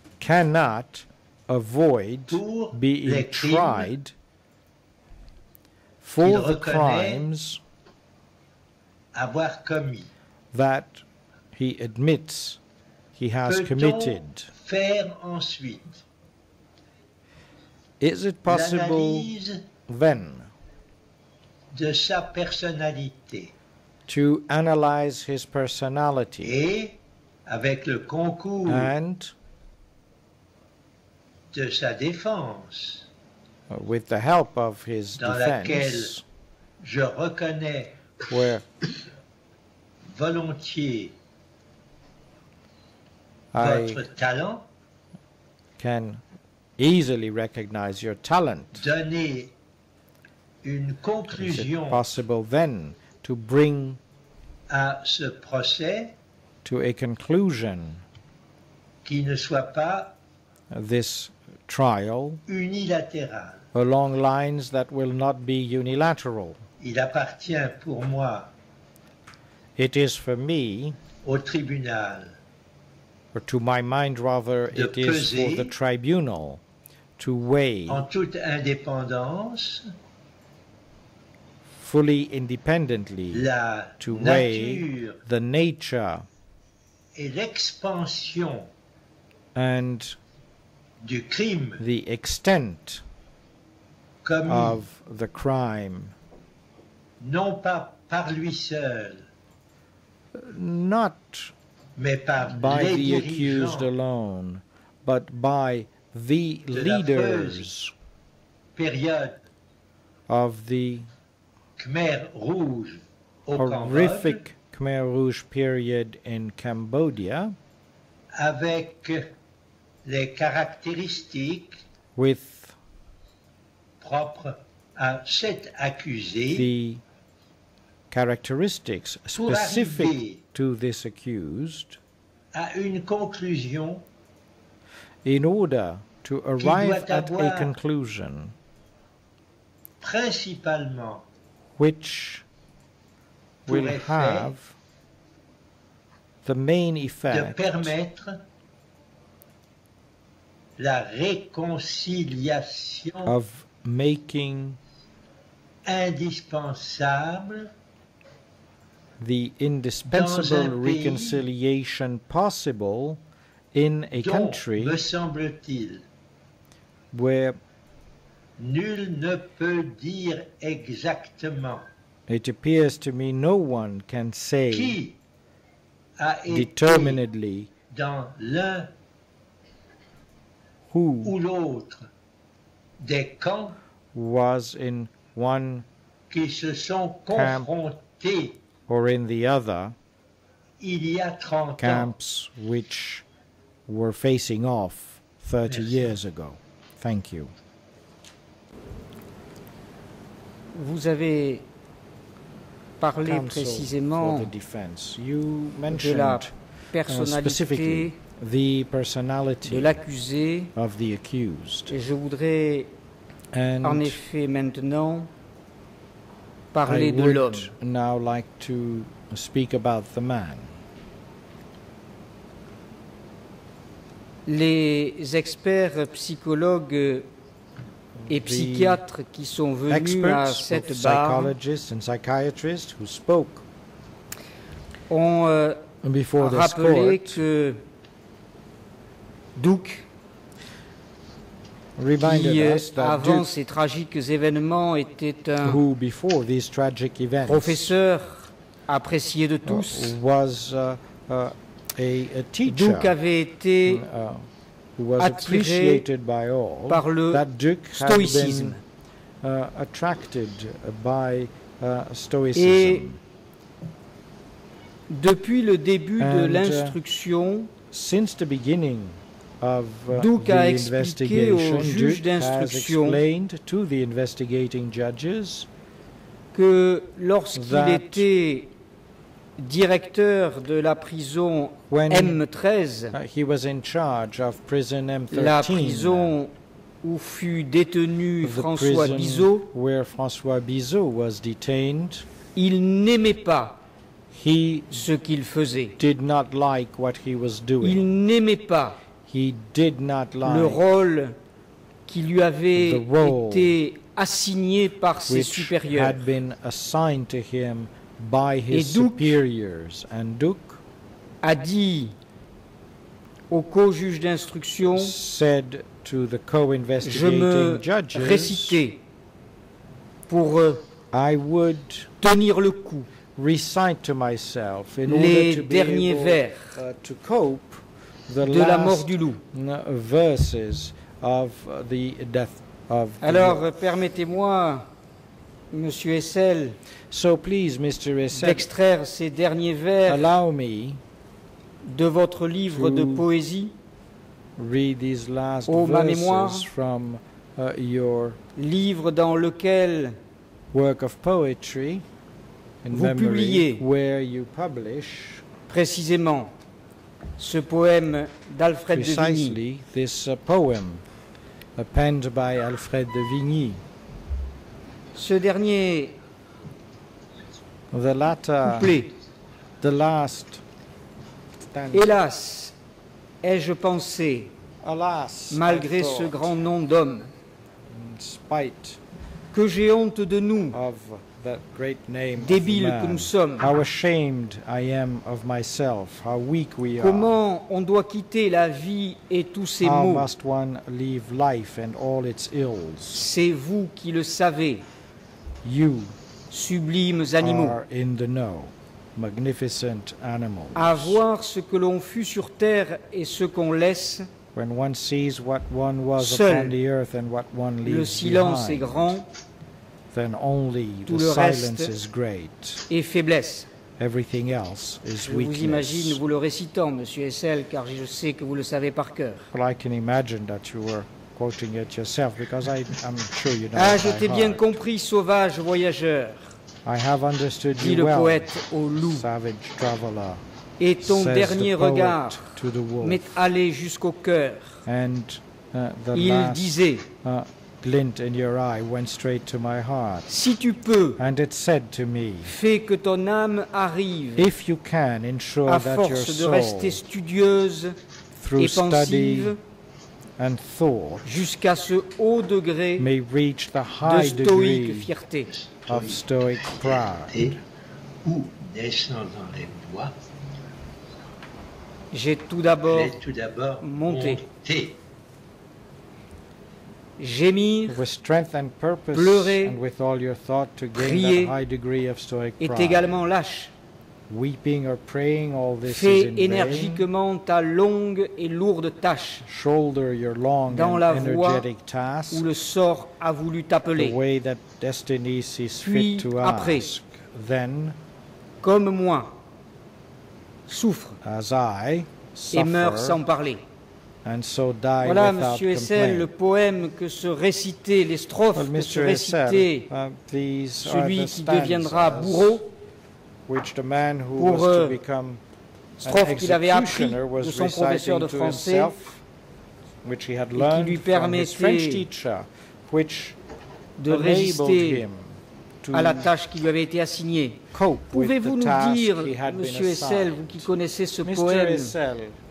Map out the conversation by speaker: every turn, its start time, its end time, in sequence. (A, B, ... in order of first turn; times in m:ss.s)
0:00.2-0:04.1 A
0:02.3-0:03.9 B
0:06.0-0:07.6 A
0:06.2-0:07.2 B
0:09.1-0:10.1 B
0:10.5-0:11.0 A
0:11.5-0:12.6 A
0:13.2-0:14.5 A
0:13.4-0:16.0 B
0:18.0-0:19.3 A
0:18.4-0:19.6 B
0:19.9-0:20.5 A
0:21.7-0:23.5 B
0:24.1-0:26.6 A
0:26.4-0:28.9 B
0:28.7-0:29.3 A
0:31.5-0:33.0 B
0:33.7-0:36.2 A
0:35.2-0:36.1 B
0:36.8-0:38.0 B
0:38.3-0:38.6 A
0:40.1-0:41.1 B
0:43.5-0:44.0 A
0:43.6-0:44.6 B
0:45.8-0:46.2 A
0:46.8-0:48.8 A
0:48.8-0:49.5 B
0:50.6-0:52.0 B
0:51.3-0:54.0 A
0:54.7-0:56.1 B
0:56.6-0:58.0 A
0:59.0-1:00.1 B
1:00.7-1:02.4 A
1:02.5-1:03.6 B
1:03.7-1:06.6 A
1:06.8-1:08.5 B
1:09.8-1:11.0 A
1:11.2-1:12.4 B
1:13.3-1:16.6 A
1:14.7-1:15.7 B
1:17.2-1:18.0 A
1:17.9-1:19.9 B
1:21.8-1:23.5 A
1:23.3-1:25.2 B
1:24.0-1:26.2 A
1:27.2-1:28.7 B
1:29.5-1:30.2 A
1:31.0-1:31.8 B
1:31.8-1:33.0 A
1:34.2-1:34.8 B
1:34.4-1:36.2 A
1:37.2-1:39.3 B
1:40.3-1:41.5 A
1:42.0-1:43.9 B
1:42.5-1:47.9 A
1:46.7-1:47.7 B
1:48.8-1:49.4 B
1:50.3-1:51.1 A
1:51.8-1:54.4 B
1:53.6-1:57.6 A
1:58.3-1:59.3 B
2:00.0-2:01.8 B
2:02.2-2:02.8 A
2:04.0-2:06.7 B
2:06.5-2:07.0 A
2:08.1-2:12.0 A
2:09.4-2:10.4 B
2:12.5-2:14.0 B
2:15.2-2:18.5 A
2:16.6-2:17.7 B
2:20.0-2:21.2 B
2:21.8-2:22.4 A
2:23.6-2:24.5 B
2:23.6-2:24.7 A
2:26.4-2:27.9 A
2:27.3-2:28.4 B
2:30.8-2:33.4 B
2:33.2-2:34.8 A
2:35.8-2:37.7 B
2:39.2-2:43.2 A
2:40.1-2:41.4 B
2:43.7-2:45.0 A
2:44.2-2:46.0 B
2:47.1-2:47.6 A
2:48.6-2:51.9 B
2:52.3-2:55.0 A
2:54.7-2:55.2 B
2:56.2-2:57.2 B
2:56.5-2:57.7 A
2:57.9-2:58.9 B
3:00.9-3:01.3 A
3:01.2-3:02.1 B
3:03.0-3:03.8 B
3:04.1-3:05.8 A
3:06.3-3:08.6 B
3:07.3-3:07.7 A
3:08.9-3:10.0 A
3:10.8-3:12.1 B
3:11.8-3:13.2 A
3:13.9-3:17.5 A
3:15.7-3:16.1 B
3:20.7-3:21.6 C
3:23.0-3:24.5 C
3:23.2-3:26.5 A
3:25.9-3:28.1 C
3:27.1-3:30.0 A
3:29.6-3:30.7 C
3:30.7-3:31.9 A
3:31.9-3:32.9 C
3:33.5-3:34.2 A
3:33.8-3:35.3 C
3:36.7-3:37.7 C
3:36.8-3:40.8 A
3:44.4-3:47.3 C
3:48.2-3:49.0 A
3:48.3-3:51.5 C
3:49.9-3:53.6 A
3:55.1-3:55.8 C
3:56.0-3:57.4 A
3:56.4-3:57.8 C
3:59.6-4:00.0 C
4:02.0-4:03.5 A
4:02.2-4:05.8 C
4:05.6-4:07.8 A
4:07.4-4:10.1 C
4:09.6-4:13.1 A
4:12.6-4:14.0 C
4:13.8-4:18.8 A
4:15.2-4:16.0 C
4:16.9-4:18.8 C
4:19.4-4:23.2 A
4:22.5-4:23.1 C
4:25.1-4:27.7 C
4:26.2-4:27.0 A
4:27.9-4:35.7 A
4:30.1-4:33.2 C
4:36.5-4:38.7 C
4:37.5-4:38.2 A
4:39.6-4:43.2 C
4:41.9-4:42.4 A
4:43.1-4:46.3 A
4:45.3-4:46.5 C
4:47.0-4:49.6 C
4:48.4-4:52.2 A
4:52.5-4:53.8 C
4:54.3-4:55.0 A
4:54.9-4:55.9 C
4:56.0-4:58.0 A
4:57.8-4:59.0 C
4:59.3-5:00.8 A
5:00.4-5:01.3 C
5:02.1-5:06.2 C
5:02.8-5:03.7 A
5:05.3-5:10.8 A
5:08.7-5:09.4 C
5:11.4-5:12.1 C
5:13.5-5:15.1 C
5:14.9-5:18.8 A
5:17.0-5:19.0 C
5:20.3-5:20.8 C
5:21.1-5:22.1 A
5:22.2-5:23.1 C
5:23.3-5:33.6 A
5:25.0-5:26.8 C
5:28.4-5:29.4 C
5:33.2-5:34.9 C
5:35.7-5:36.8 C
5:37.1-5:38.7 A
5:38.3-5:40.3 C
5:40.1-5:41.0 A
5:41.8-5:43.7 C
5:42.7-5:43.2 A
5:44.6-5:48.4 A
5:45.6-5:46.7 C
5:48.6-5:50.2 C
5:50.7-5:52.0 A
5:52.8-5:55.4 A
5:52.9-5:53.8 C
5:55.7-5:56.5 C
5:57.4-5:59.6 C
5:58.9-6:01.0 A
6:01.8-6:03.8 A
6:05.1-6:06.2 C
6:07.9-6:08.9 A
6:08.6-6:09.1 C
6:09.8-6:10.6 A
6:11.6-6:12.1 A
6:11.9-6:12.7 C
6:13.4-6:14.5 C
6:14.8-6:16.5 A
6:15.5-6:17.3 C
6:17.9-6:19.0 A
6:19.5-6:20.8 C
6:20.7-6:27.3 A
6:22.4-6:23.7 C
6:27.0-6:30.3 C
6:29.8-6:33.2 A
6:33.1-6:34.8 C
6:35.6-6:36.2 A
6:36.5-6:37.8 C
6:37.4-6:41.2 A
6:40.7-6:44.3 C
6:44.5-6:49.1 A
6:46.2-6:46.8 C
6:47.8-6:49.2 C
6:50.1-6:52.8 A
6:51.1-6:51.9 C
6:52.9-6:53.7 C
6:54.0-6:56.2 A
6:55.2-6:59.5 C
6:59.5-7:04.9 A
7:03.7-7:06.5 C
7:06.8-7:10.4 A
7:07.8-7:09.3 C
7:10.8-7:14.8 C
7:11.0-7:13.3 A
7:14.8-7:20.3 A
7:16.1-7:17.0 C
7:20.3-7:21.2 C
7:21.2-7:22.6 A
7:22.4-7:24.5 C
7:24.4-7:27.0 A
7:25.6-7:28.0 C
7:28.4-7:29.6 A
7:28.6-7:29.6 C
7:30.4-7:31.3 A
7:31.2-7:33.1 C
7:33.0-7:35.1 A
7:34.0-7:35.5 C
7:35.5-7:37.6 B
7:35.9-7:37.5 A
7:38.2-7:40.1 B
7:42.1-7:43.1 C
7:42.9-7:45.0 B
7:43.8-7:44.4 C
7:47.2-7:48.0 C
7:47.9-7:53.2 A
7:49.1-7:49.8 C
7:50.9-7:51.6 C
7:52.6-7:53.7 C
7:54.3-7:57.0 A
7:55.8-7:59.4 C
7:59.4-8:02.4 A
8:00.7-8:01.7 C
8:02.3-8:04.2 C
8:03.9-8:08.0 A
8:05.8-8:06.9 C
8:08.6-8:09.3 C
8:10.7-8:11.2 C
8:11.2-8:13.2 A
8:12.5-8:13.6 C
8:14.2-8:16.3 A
8:15.0-8:19.9 C
8:18.5-8:22.6 A
8:20.8-8:22.6 C
8:23.5-8:25.4 A
8:24.4-8:25.0 C
8:26.0-8:29.0 C
8:26.0-8:29.2 A
8:30.0-8:33.4 A
8:30.5-8:32.0 C
8:34.0-8:35.0 C
8:34.1-8:36.3 A
8:35.9-8:41.9 C
8:37.7-8:40.7 A
8:41.2-8:42.4 A